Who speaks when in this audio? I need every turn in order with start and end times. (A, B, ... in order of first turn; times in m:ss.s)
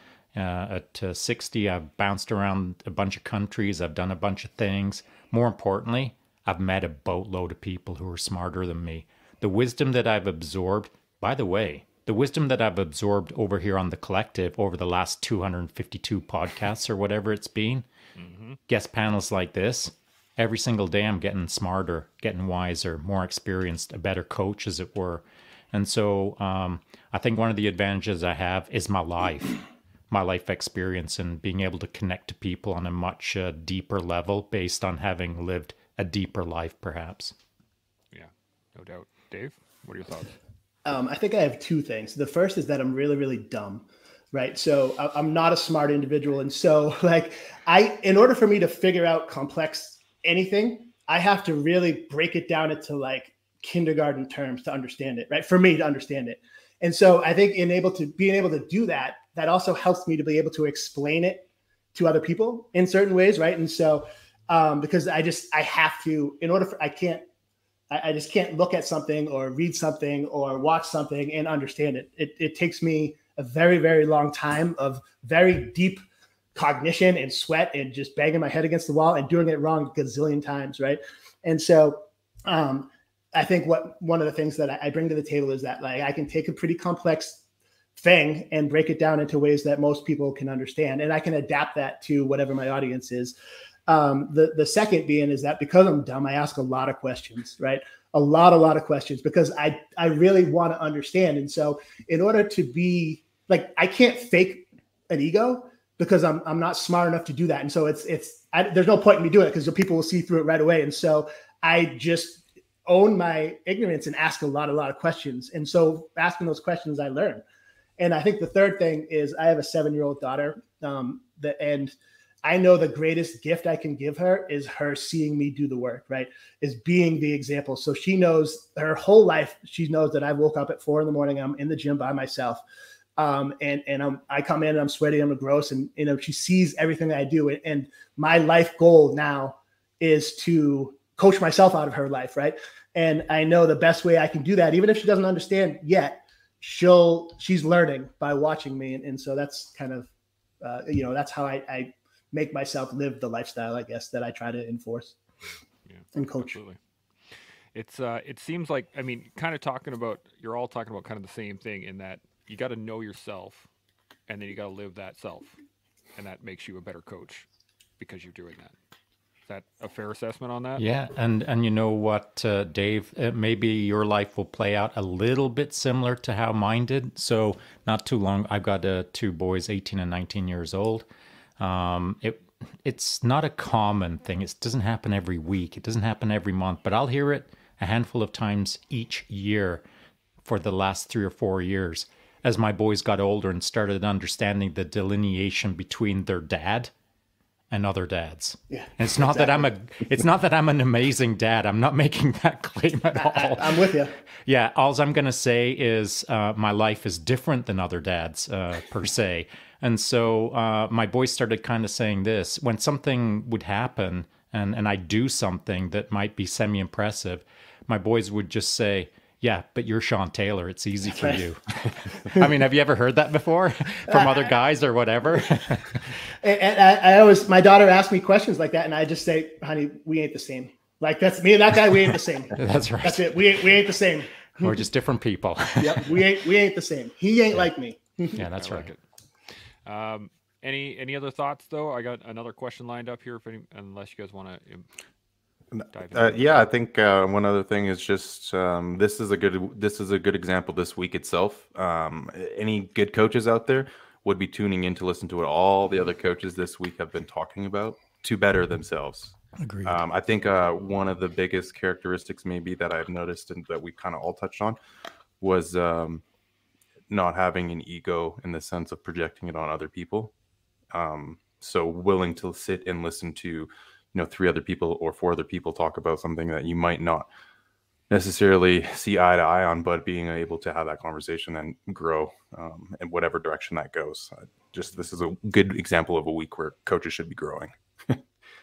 0:00.4-0:17.9 A
0:18.2-0:18.6 B
0:18.7-0:37.4 A
0:38.1-0:40.3 B
0:40.8-1:07.2 C
1:07.9-1:16.0 C
1:16.6-1:27.4 C
1:28.0-1:33.4 C
1:33.9-1:57.4 C
1:58.0-2:12.6 C
2:13.2-2:30.1 C
2:30.6-2:35.2 C
2:35.9-2:36.8 B
2:36.2-2:36.6 C
2:37.8-2:43.7 B
2:44.3-2:45.6 B
2:46.2-2:47.5 B
2:48.0-2:48.8 B
2:49.5-2:50.8 B
2:50.8-3:01.1 A
3:01.6-3:09.8 A
3:10.4-3:16.9 A
3:17.7-3:23.9 A
3:18.7-3:19.7 C
3:23.1-3:24.2 C
3:24.4-3:46.1 A
3:41.1-3:41.4 C
3:44.1-3:44.5 C
3:46.3-3:54.8 C
3:52.6-3:53.4 A
3:54.6-3:56.2 A
3:55.8-3:58.4 C
3:58.3-3:58.9 A
3:58.4-3:59.0 B
3:59.9-4:04.9 B
4:05.7-4:24.8 D
4:05.9-4:06.7 B
4:19.6-4:20.0 A
4:25.4-4:26.2 D
4:27.1-4:30.3 D
4:30.9-4:37.3 D
4:38.1-4:48.2 D